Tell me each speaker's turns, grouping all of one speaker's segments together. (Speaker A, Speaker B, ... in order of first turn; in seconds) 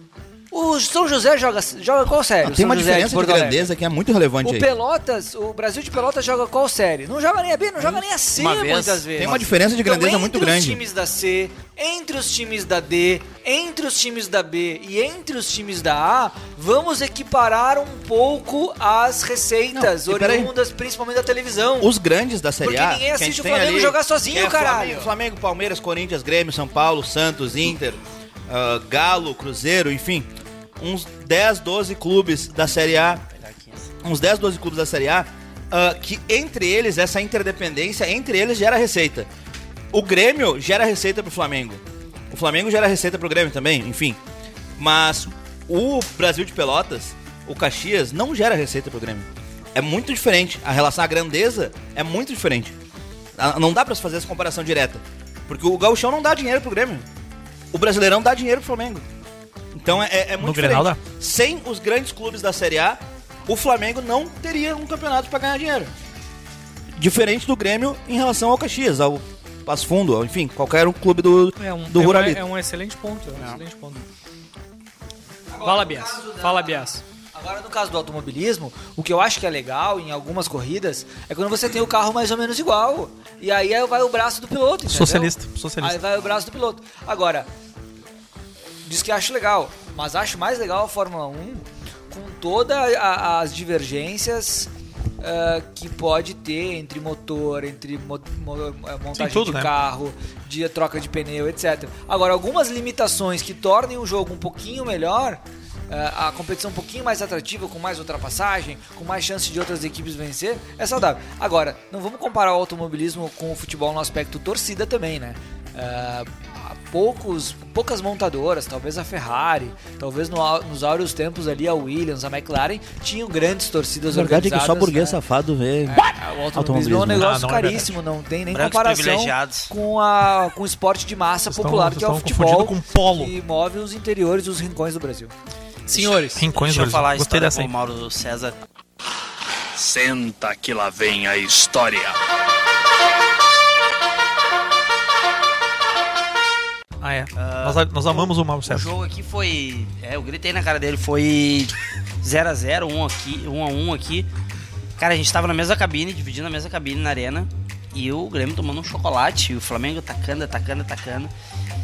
Speaker A: 0.5-3.7, 4.4-21.9, 22.6-25.1, 75.5-76.8, 77.3-87.5, 88.8-125.2, 125.9-135.3
Speaker B: 2.4-4.7, 9.2-10.8, 19.7-20.5, 21.8-33.2, 34.0-39.3, 39.9-44.2, 44.8-52.8, 53.4-57.1, 57.7-59.0, 59.7-65.9, 67.0-72.4, 124.1-127.4
Speaker C: 7.8-9.3, 33.4-33.9, 128.5-129.7, 135.9-138.6, 147.4-154.3, 155.0-161.3
Speaker D: 60.4-61.0, 84.9-86.0, 99.2-99.7, 127.2-128.0, 131.5-133.3, 136.3-137.7, 147.0-148.9
Speaker E: 71.6-74.0, 75.6-77.0, 135.9-136.4
Speaker F: 139.8-142.2